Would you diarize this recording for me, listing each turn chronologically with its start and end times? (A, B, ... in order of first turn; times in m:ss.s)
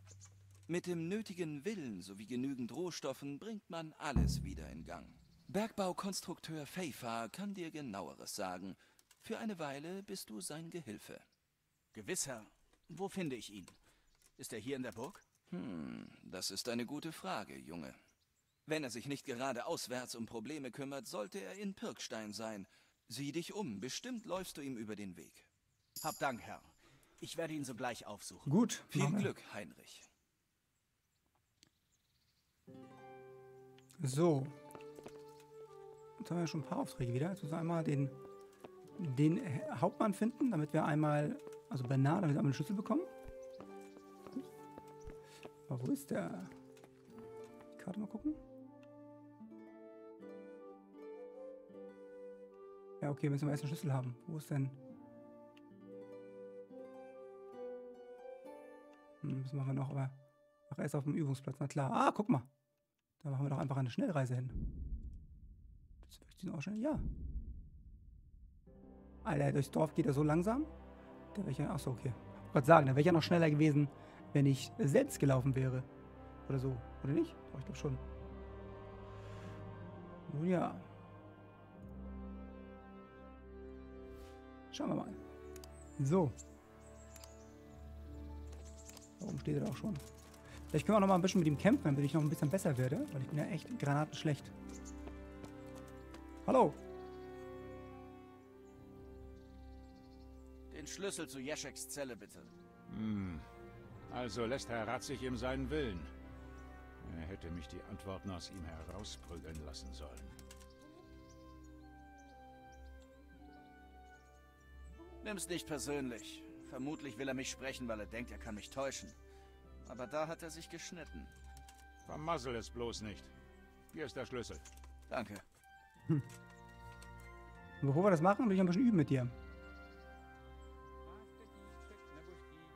0:00.7-0:11.2 A
0:11.9-0:13.8 B
0:14.4-0:15.2 B
0:15.5-0:18.0 A
0:18.7-0:25.5 A
0:26.0-0:28.5 B
0:28.5-0:29.3 C
0:28.9-0:30.1 A
0:34.0-0:34.6 C
0:36.2-0:38.2 C
0:39.0-0:43.1 C
0:45.7-0:46.5 C
0:47.8-0:48.4 C
0:53.0-0:54.8 C
0:59.2-1:00.2 C
1:00.7-1:02.5 C
1:03.2-1:04.6 C
1:06.0-1:07.1 C
1:09.2-1:10.7 C
1:11.3-1:15.9 C
1:16.5-1:18.0 C
1:20.3-1:20.9 C
1:24.7-1:25.2 C
1:26.0-1:26.4 C
1:29.2-1:30.0 C
1:30.7-1:34.5 C
1:36.4-1:36.8 C
1:40.7-1:42.5 B
1:42.9-1:43.5 D
1:44.1-1:46.1 D
1:47.0-1:50.4 D
1:55.2-1:59.2 B
1:59.8-2:01.3 B
2:02.1-2:03.3 D
2:03.9-2:04.6 D
2:05.1-2:05.4 B
2:07.8-2:09.4 C